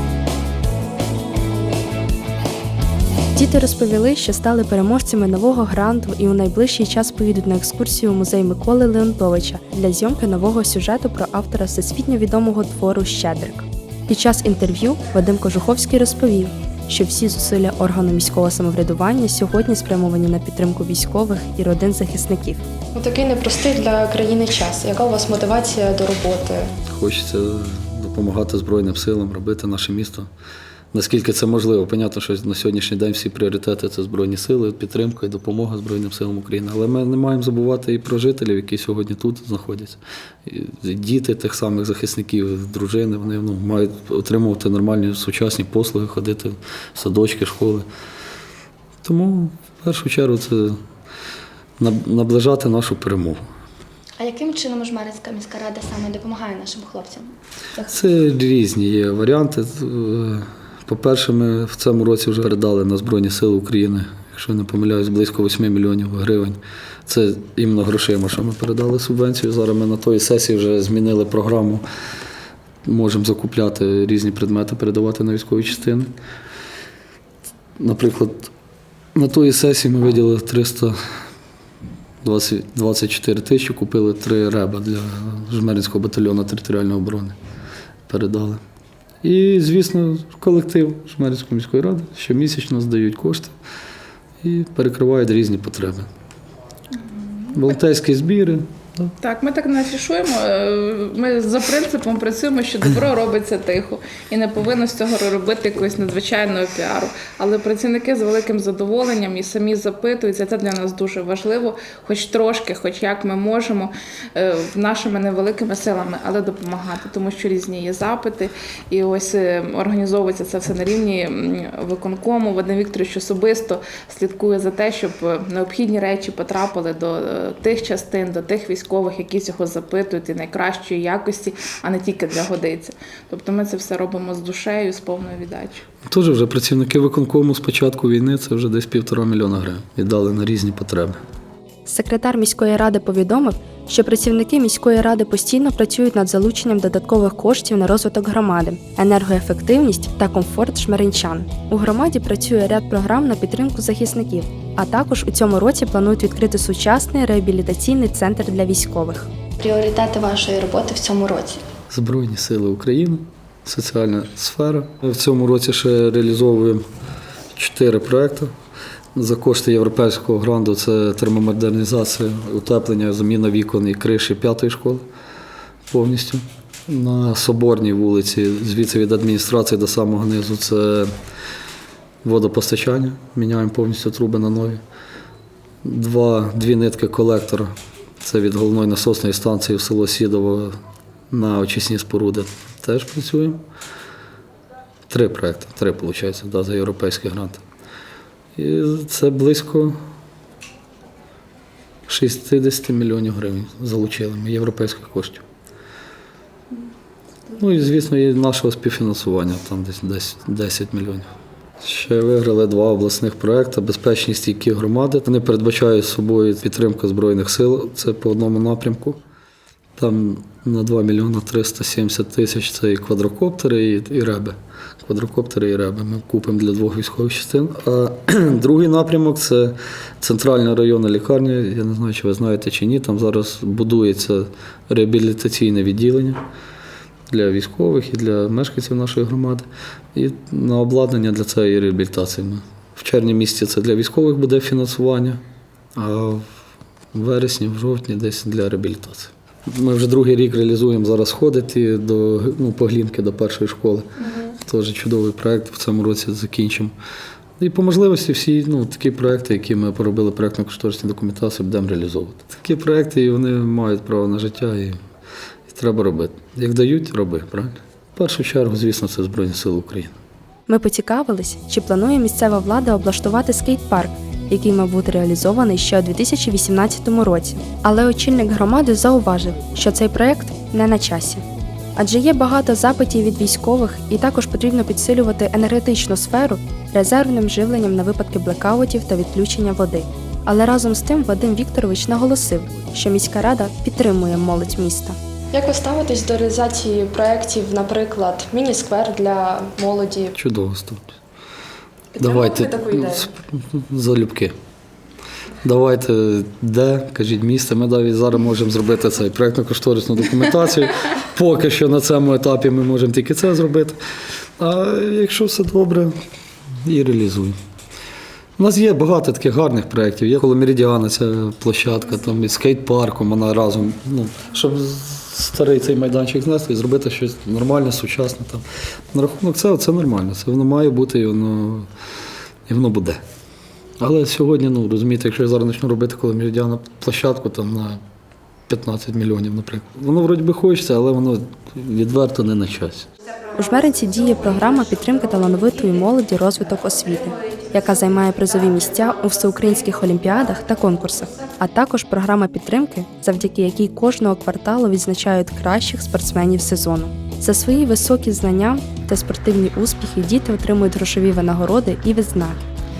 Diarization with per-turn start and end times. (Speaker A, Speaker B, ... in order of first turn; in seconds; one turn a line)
Speaker A: 3.3-22.7
Speaker B: 22.9-26.7
Speaker C: 26.9-30.3
Speaker C: 30.9-47.9
Speaker C: 49.0-50.8
Speaker C: 51.8-53.5
Speaker D: 54.2-57.3
Speaker C: 57.8-71.8
Speaker C: 72.8-76.1
Speaker C: 77.8-78.5
Speaker C: 79.1-81.0
Speaker C: 82.2-87.3
Speaker C: 88.1-88.6
Speaker C: 89.2-93.5
Speaker C: 94.4-96.1
Speaker E: 96.9-97.5
Speaker C: 97.5-99.1
Speaker E: 99.2-135.8
Speaker C: 136.1-141.2
Speaker A: 141.8-159.3
Speaker D: 159.6-161.6
Speaker C: 161.9-166.8
Speaker C: 167.5-168.5
Speaker C: 169.2-175.0
Speaker C: 175.9-181.1
Speaker C: 182.2-184.8
Speaker C: 185.8-190.8
Speaker C: 191.3-193.6
Speaker C: 195.1-197.6
Speaker C: 198.6-199.9
Speaker C: 202.1-205.4
Speaker C: 207.5-219.2
Speaker C: 220.0-236.4
Speaker C: 237.3-245.4
Speaker C: 245.9-246.4
Speaker C: 247.1-256.9
Speaker C: 257.6-265.0
Speaker C: 265.7-270.1
Speaker A: 270.7-281.4
Speaker A: 281.9-295.2
Speaker B: 295.5-300.3
Speaker C: 300.4-301.1
Speaker C: 302.2-304.5
Speaker B: 302.2-303.2
Speaker C: 305.6-314.0
Speaker C: 314.6-316.1
Speaker C: 316.8-317.6
Speaker C: 318.6-331.9
Speaker C: 332.7-333.2
Speaker C: 334.0-338.0
Speaker C: 338.7-343.1
Speaker A: 343.5-362.6